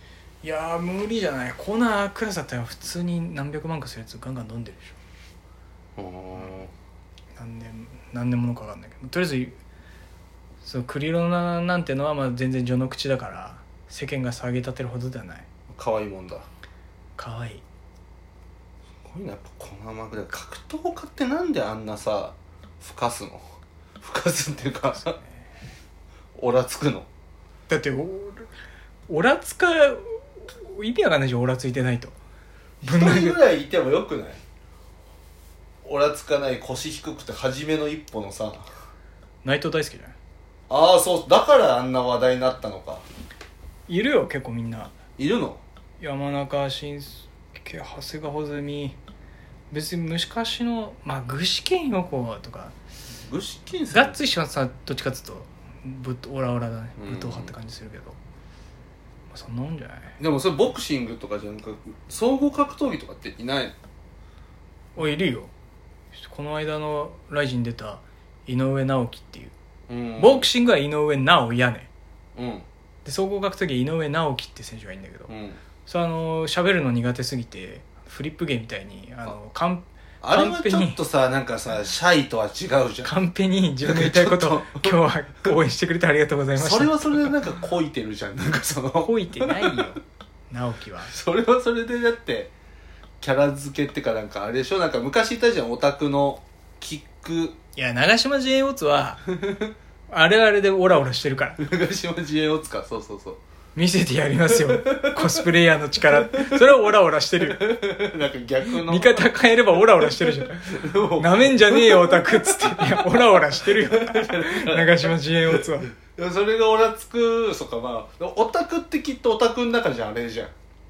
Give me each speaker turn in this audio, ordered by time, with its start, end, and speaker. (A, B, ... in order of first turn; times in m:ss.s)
0:00.4-0:05.0 A
0:06.0-0:06.7 B
0:07.3-0:09.6 A
0:10.6-0:15.5 A
0:15.7-0:16.5 B
0:17.2-0:17.6 A
0:19.0-0:23.5 B
0:24.0-0:25.2 B
0:25.0-0:25.4 A
0:26.4-0:27.1 B
0:27.7-0:28.5 A
0:29.1-0:32.2 A
0:32.8-0:34.4 B
0:32.8-0:33.4 A
0:35.8-0:38.7 B
0:39.4-0:40.1 A
0:40.7-0:43.0 B
0:43.9-0:44.9 A
0:45.2-0:45.6 B
0:46.0-0:49.0 A
0:49.7-0:52.7 A
0:53.2-0:54.2 B
0:53.9-0:58.2 A
0:57.0-0:57.5 B
0:59.3-1:00.2 A
1:00.2-1:03.7 B
1:05.0-1:05.5 A
1:06.2-1:09.5 A
1:09.9-1:10.5 B
1:10.2-1:11.9 A
1:12.4-1:12.6 B
1:13.0-1:15.3 A
1:15.3-1:15.6 B
1:15.8-1:21.0 A
1:20.2-1:23.1 B
1:23.0-1:27.3 A
1:23.8-1:24.9 B
1:26.6-1:29.8 B
1:29.0-1:31.1 A
1:31.1-1:32.5 B
1:33.2-1:37.6 B
1:37.8-1:39.2 A
1:39.4-1:39.7 B
1:40.1-1:41.6 A
1:41.6-1:43.4 B
1:43.8-1:47.7 A
1:44.6-1:45.4 B
1:46.3-1:46.6 B
1:47.4-1:49.3 B
1:48.6-1:55.9 A
1:50.1-2:00.5 B